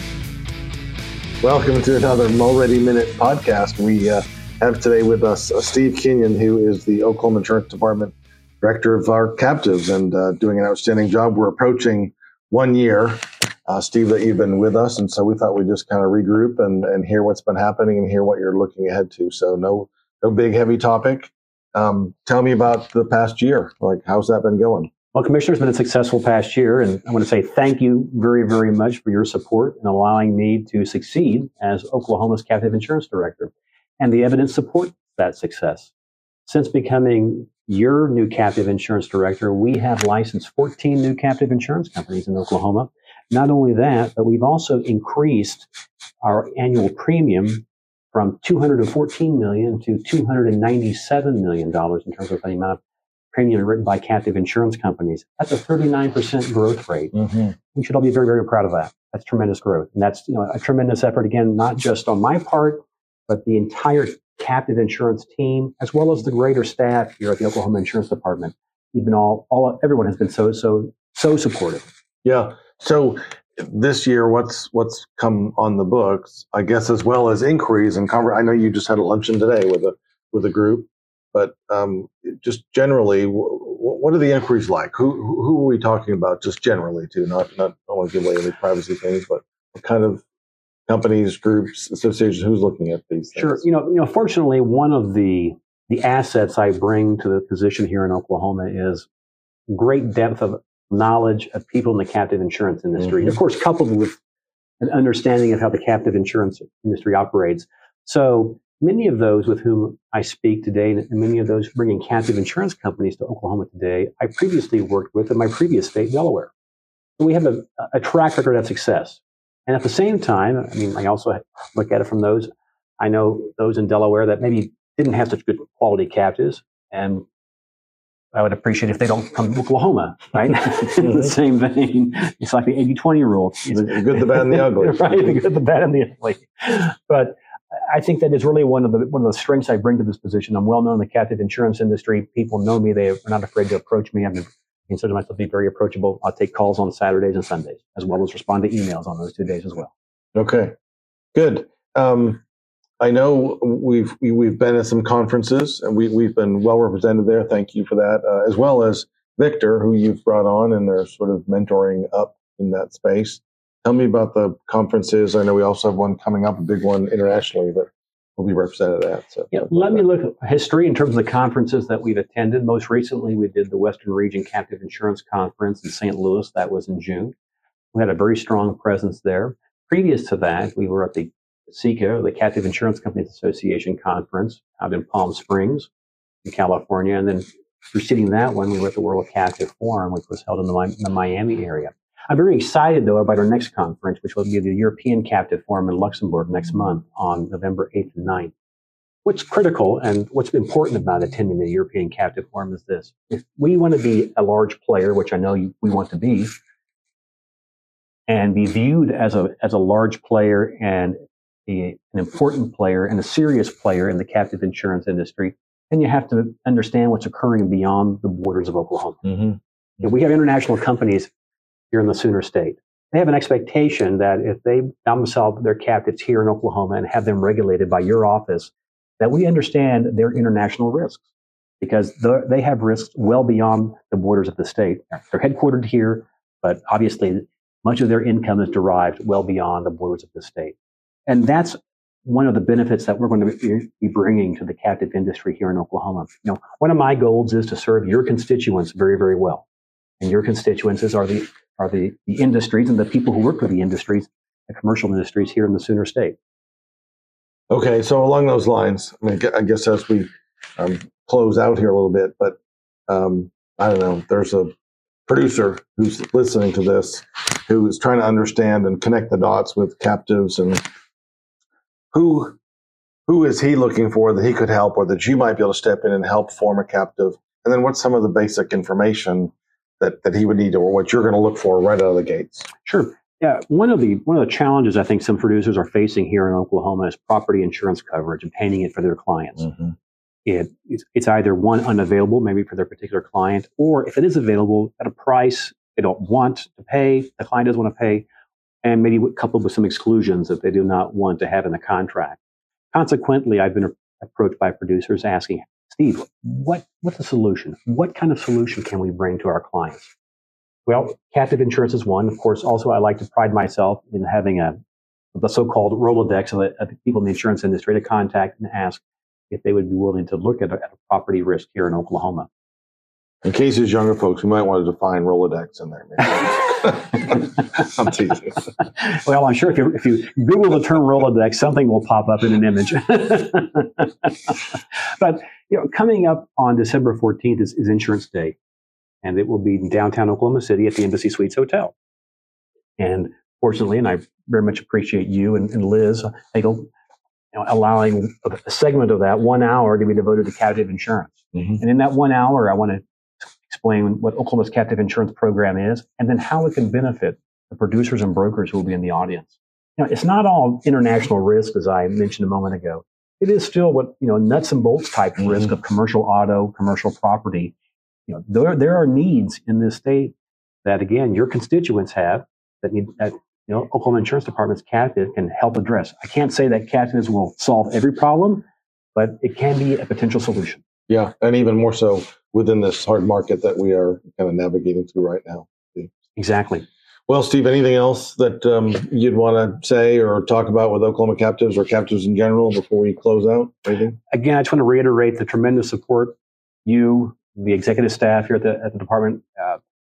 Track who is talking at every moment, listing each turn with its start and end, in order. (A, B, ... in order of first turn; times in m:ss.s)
0:01.4-0:24.9 A
0:25.1-0:35.9 B
0:36.5-0:45.7 B
0:46.2-0:52.8 B
0:53.3-1:11.8 B
0:57.2-0:57.5 A
1:12.2-1:30.2 A
1:30.9-1:33.6 A
1:33.3-1:39.1 B
1:39.7-1:44.2 B
1:43.0-1:43.4 A
1:44.8-1:56.5 B
1:57.2-2:07.2 B
2:08.3-2:29.9 B
2:13.7-2:15.4 A
2:30.4-2:30.7 A
2:31.3-2:32.4 A
2:33.0-2:50.0 A
2:49.5-2:57.3 B
2:57.9-3:05.9 B
3:06.4-3:18.5 B
3:19.2-3:26.6 B
3:28.3-3:39.4 B
3:39.3-3:39.6 A
3:40.0-3:41.3 B
3:41.9-3:51.2 B
3:51.8-4:09.6 B
4:10.2-4:16.4 B
4:17.7-4:22.6 A
4:23.1-4:24.7 A
4:25.3-4:30.8 A
4:32.1-4:32.6 A
4:33.3-4:42.7 A
4:42.8-4:49.7 B
4:50.4-4:58.3 B
4:58.8-5:02.4 B
5:02.9-5:10.1 B
5:10.9-5:14.8 B
5:15.3-5:22.5 B
5:23.4-5:28.6 A
5:29.0-5:38.6 B
5:39.2-5:41.9 B
5:43.0-5:46.9 B
5:47.5-6:07.7 B
6:08.3-6:20.8 B
6:21.1-6:26.1 A
6:26.4-6:26.9 B
6:27.3-6:34.2 A
6:34.3-6:39.8 B